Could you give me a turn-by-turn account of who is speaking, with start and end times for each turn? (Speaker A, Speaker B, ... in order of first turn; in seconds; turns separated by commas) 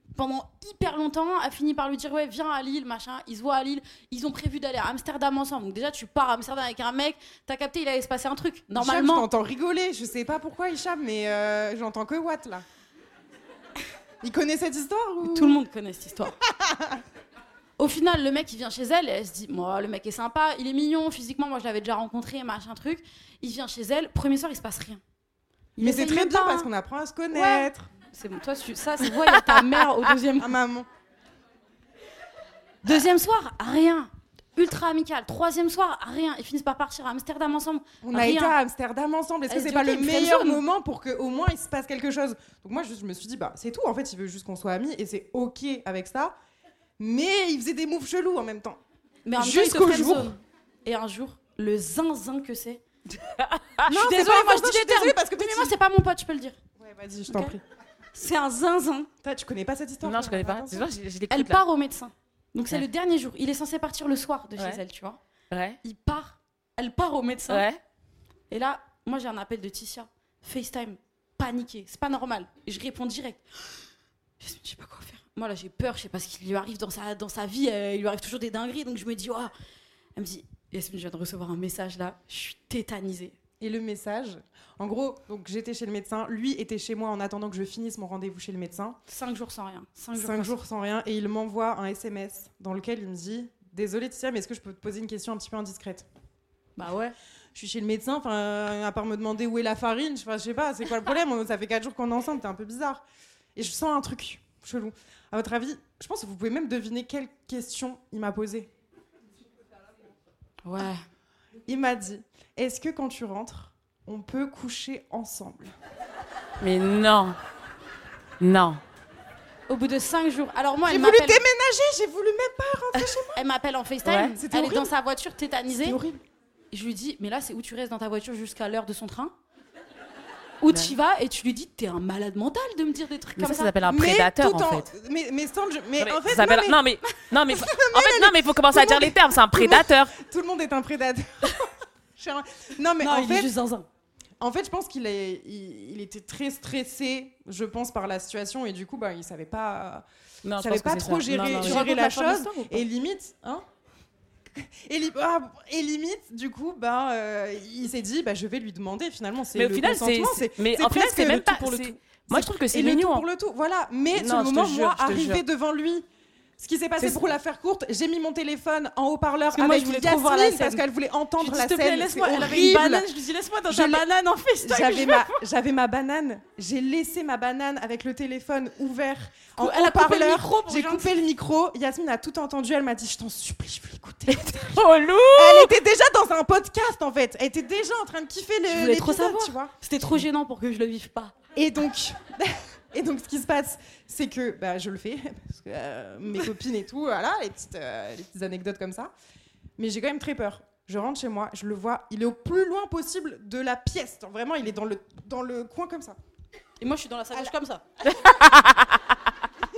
Speaker A: 0.1-9.3, Speaker B: 8.7-12.7, Speaker B: 14.2-15.6, Speaker A: 15.2-16.4, Speaker B: 16.6-17.0, Speaker A: 17.8-25.0, Speaker A: 25.8-26.7, Speaker B: 25.8-27.9, Speaker A: 27.3-30.6, Speaker B: 30.4-30.9, Speaker A: 32.8-38.6, Speaker B: 38.0-46.4, Speaker A: 39.5-40.6, Speaker B: 47.0-48.8, Speaker A: 49.3-52.8, Speaker B: 49.4-50.4, Speaker C: 53.1-53.9, Speaker A: 53.9-56.6, Speaker B: 53.9-55.8, Speaker B: 56.8-57.6, Speaker A: 57.3-57.6, Speaker A: 58.1-59.1, Speaker B: 59.2-60.9, Speaker C: 60.0-61.6, Speaker A: 61.3-65.2, Speaker C: 65.5-65.8, Speaker A: 65.8-67.7, Speaker C: 67.5-67.8, Speaker A: 68.5-73.9, Speaker A: 74.4-79.5, Speaker A: 80.2-83.3, Speaker B: 83.6-89.0, Speaker A: 89.1-90.6, Speaker B: 90.1-96.1, Speaker A: 96.8-97.2, Speaker B: 97.5-103.0, Speaker B: 103.6-108.7, Speaker A: 110.6-111.0, Speaker B: 111.7-115.7, Speaker C: 116.6-117.4, Speaker C: 118.4-118.8, Speaker A: 119.7-121.5, Speaker B: 120.9-123.4, Speaker A: 123.3-126.0, Speaker C: 124.1-124.4, Speaker B: 124.4-124.9, Speaker B: 125.7-126.2, Speaker A: 126.7-129.3, Speaker A: 130.6-133.8, Speaker C: 133.4-134.9, Speaker B: 133.9-136.8, Speaker C: 136.0-140.2, Speaker B: 137.5-141.6, Speaker B: 142.2-143.5, Speaker A: 143.0-143.9, Speaker B: 144.4-150.1, Speaker C: 150.4-151.9, Speaker B: 150.6-153.6, Speaker A: 151.3-152.8, Speaker B: 154.6-166.1, Speaker C: 159.5-163.3, Speaker C: 164.2-165.4, Speaker B: 166.6-173.1, Speaker A: 169.5-170.8, Speaker A: 171.4-175.4, Speaker B: 173.7-174.1, Speaker B: 174.6-184.8, Speaker A: 179.6-181.2, Speaker C: 184.3-185.8, Speaker B: 185.3-189.7, Speaker A: 188.7-191.3, Speaker B: 191.6-199.1, Speaker B: 199.8-206.2, Speaker A: 206.8-207.8, Speaker C: 208.1-208.9